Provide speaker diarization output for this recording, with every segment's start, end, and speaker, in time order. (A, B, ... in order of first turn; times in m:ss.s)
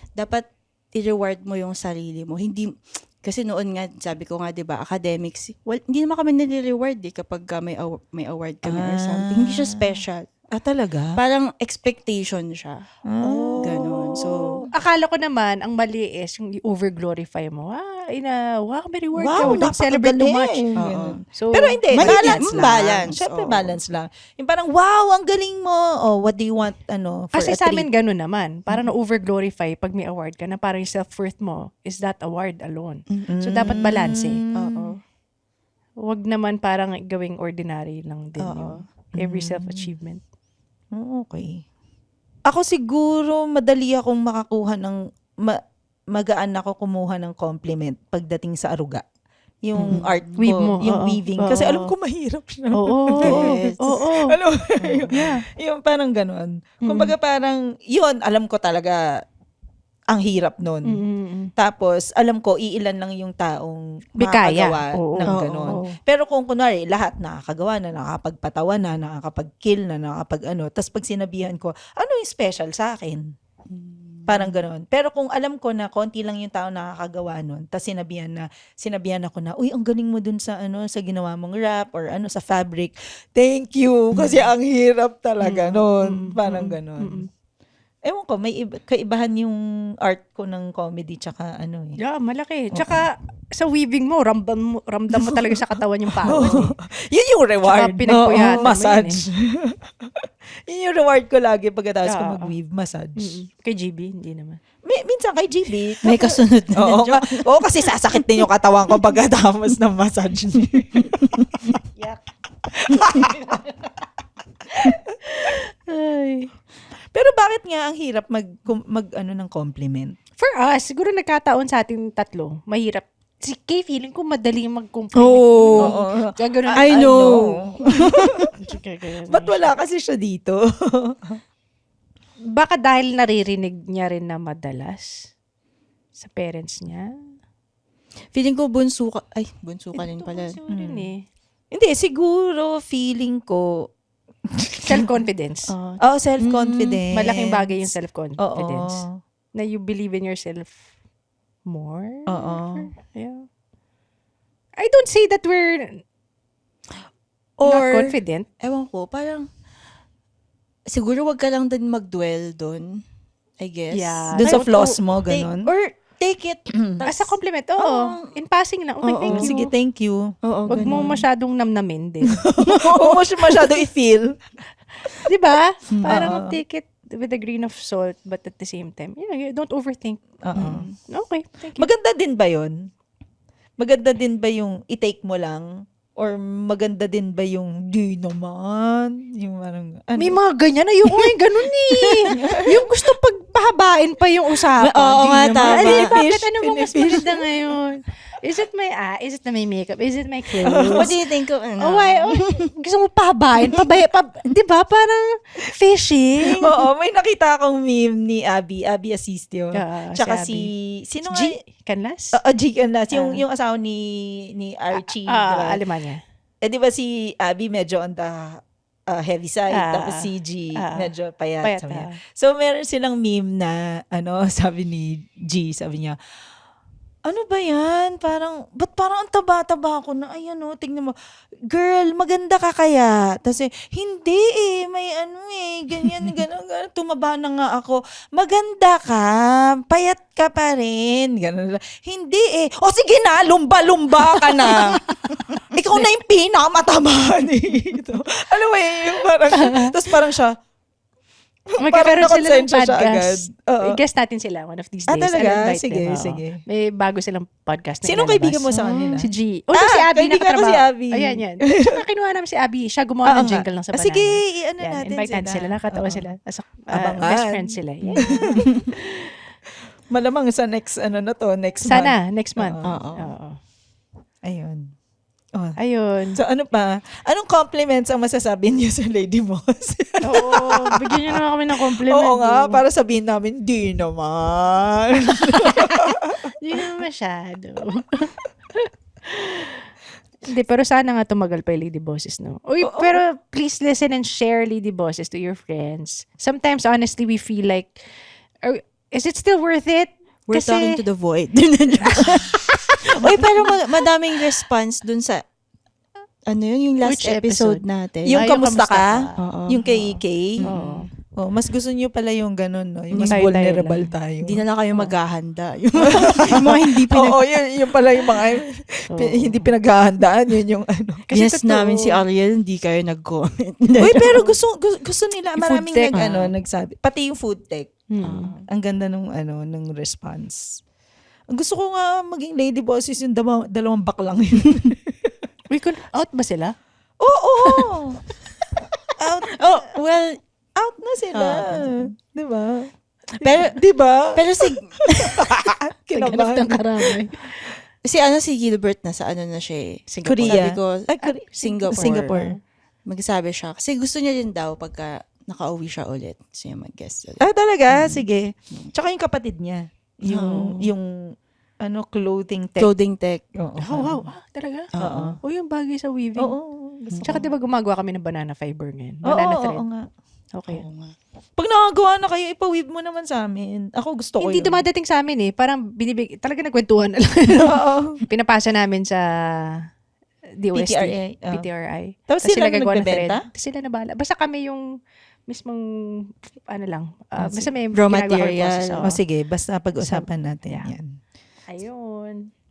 0:00.2-0:10.3 A
0:08.6-0:10.0 B
0:10.5-0:11.2 B
0:11.2-0:12.8 A
0:13.1-0:14.7 B
0:13.2-0:13.6 C
0:13.6-0:14.7 A
0:14.7-0:20.6 C
0:19.2-0:27.9 B
0:19.4-0:19.7 A
0:20.8-0:21.2 A
0:21.4-0:22.4 C
0:21.9-0:23.8 A
0:27.3-0:34.4 C
0:33.1-0:33.8 A
0:33.3-0:34.9 B
0:34.6-0:35.0 A
0:36.0-0:40.2 C
0:38.4-0:38.8 A
0:39.2-0:39.9 B
0:40.9-0:41.6 B
0:42.5-0:45.6 B
0:46.1-0:49.0 B
0:49.6-0:59.0 B
0:49.9-0:51.9 C
0:49.9-0:50.4 A
0:52.7-0:54.4 C
0:53.2-0:53.7 A
0:55.1-0:55.4 C
0:56.8-0:57.1 C
1:00.1-1:01.0 B
1:00.9-1:01.5 C
1:01.6-1:13.3 B
1:04.2-1:06.0 C
1:05.3-1:05.7 A
1:13.7-1:14.5 A
1:14.3-1:27.3 B
1:25.4-1:27.3 C
1:28.0-1:32.0 B
1:32.0-1:36.7 C
1:32.8-1:33.0 B
1:35.2-1:35.6 B
1:36.3-1:43.4 B
1:37.7-1:39.2 C
1:38.1-1:38.7 A
1:42.1-1:42.5 C
1:43.2-1:44.6 C
1:44.8-1:51.7 B
1:46.0-1:48.4 A
1:51.0-1:51.7 A
1:52.0-1:52.2 C
1:52.7-1:53.4 B
1:53.0-1:53.7 C
1:55.3-1:56.5 C
1:57.1-2:00.2 B
2:00.4-2:09.6 C
2:05.2-2:05.9 A
2:05.8-2:08.5 B
2:06.8-2:08.5 A
2:09.3-2:11.4 B
2:12.5-2:15.3 C
2:16.2-2:17.1 C
2:18.3-2:20.5 A
2:20.0-2:21.2 C
2:20.7-2:21.1 B
2:21.7-2:23.7 B
2:24.6-2:25.2 B
2:24.8-2:25.7 C
2:25.7-2:27.0 A
2:26.0-2:27.8 B
2:27.1-2:30.8 C
2:28.4-2:29.1 B
2:31.7-2:33.5 C
2:32.3-2:32.9 B
2:34.8-2:36.0 C
2:37.6-2:39.5 A
2:37.6-2:38.5 C
2:40.9-2:43.0 A
2:43.6-2:48.3 A
2:43.9-2:44.6 C
2:44.4-2:45.7 B
2:46.8-2:47.0 B
2:47.1-2:49.5 C
2:49.0-2:49.7 A
2:49.3-2:51.0 B
2:50.4-2:51.2 A
2:50.7-2:52.5 C
2:52.5-2:54.4 B
2:52.8-2:53.2 A
2:55.2-3:00.2 C
2:55.9-2:56.3 A
2:56.0-2:56.6 B
3:00.4-3:00.9 B
3:00.6-3:01.0 A
3:01.1-3:01.9 C
3:01.8-3:02.9 B
3:03.8-3:10.4 B
3:10.2-3:21.1 C
3:12.3-3:12.6 A
3:12.3-3:12.7 B
3:14.8-3:16.1 A
3:15.6-3:17.4 B
3:20.7-3:21.1 B
3:20.9-3:22.6 A
3:21.8-3:26.7 C
3:26.6-3:31.6 B
3:29.7-3:30.7 C
3:31.3-3:32.4 C
3:32.3-3:35.8 B
3:33.1-3:33.4 C
3:35.0-3:36.2 C
3:36.6-3:46.2 B
3:39.7-3:41.1 C
3:41.6-3:42.2 C
3:47.3-3:51.2 B
3:51.7-4:05.0 B
4:04.6-4:05.4 C
4:05.7-4:10.6 B
4:09.5-4:09.9 C
4:11.7-4:14.0 B
4:11.8-4:18.7 C
4:15.1-4:16.6 B
4:18.0-4:22.0 B
4:18.7-4:19.2 A
4:19.2-4:28.7 C
4:23.3-4:26.3 B
4:26.9-4:29.1 B
4:28.1-4:28.9 A
4:30.1-4:33.0 B
4:31.9-4:33.6 C
4:32.8-4:33.3 A
4:34.4-4:34.9 B
4:35.8-4:36.4 C
4:36.4-4:46.4 B
4:40.3-4:42.8 C
4:45.6-4:46.0 C
4:46.5-4:49.7 C
4:50.4-4:58.0 C
4:52.8-4:53.2 B
4:58.6-5:01.0 C
5:00.5-5:02.6 A
5:02.0-5:03.7 C
5:03.2-5:05.4 A
5:06.5-5:08.4 A
5:07.0-5:07.8 C
5:08.3-5:09.2 B
5:08.3-5:09.4 C
5:09.4-5:09.8 A
5:09.7-5:10.7 B
5:10.6-5:11.0 A
5:10.7-5:11.1 C
5:11.4-5:14.6 B
5:13.2-5:13.5 A
5:13.2-5:14.1 C
5:14.4-5:17.5 A
5:16.4-5:21.2 B
5:19.1-5:19.7 C
5:21.3-5:22.2 C
5:21.3-5:24.4 A
5:24.0-5:28.0 B
5:24.2-5:24.5 C
5:25.6-5:26.5 C
5:28.1-5:28.5 C
5:28.2-5:28.6 A
5:28.7-5:30.8 B
5:31.5-5:35.4 B
5:35.7-5:36.8 C
5:37.2-5:38.2 B
5:37.6-5:38.0 C
5:39.2-5:40.0 B
5:39.6-5:40.4 A
5:40.8-5:47.1 B
5:41.4-5:41.9 A
5:43.4-5:43.8 A
5:44.4-5:45.7 A
5:46.2-5:47.5 C
5:48.0-5:52.4 A
5:50.1-5:50.6 C
5:50.3-5:52.5 B
5:51.5-5:52.6 C
5:53.1-5:58.9 A
5:57.4-6:01.2 B
6:00.3-6:00.9 A
6:01.8-6:02.9 B
6:02.8-6:03.4 A
6:03.6-6:04.2 B
6:03.8-6:04.9 C
6:05.0-6:05.4 A
6:05.0-6:05.4 B
6:05.4-6:06.5 C
6:06.4-6:07.5 B
6:07.1-6:07.4 A
6:07.2-6:09.8 C
6:09.2-6:10.1 B
6:10.6-6:10.8 C
6:10.7-6:11.2 A
6:11.6-6:14.8 B
6:14.4-6:19.8 C
6:17.7-6:18.2 B
6:20.6-6:24.8 C
6:20.7-6:21.6 B
6:22.3-6:23.4 B
6:25.5-6:29.2 C
6:27.4-6:27.7 B
6:27.9-6:29.1 A
6:29.0-6:31.2 B
6:30.0-6:30.9 C
6:31.7-6:32.5 C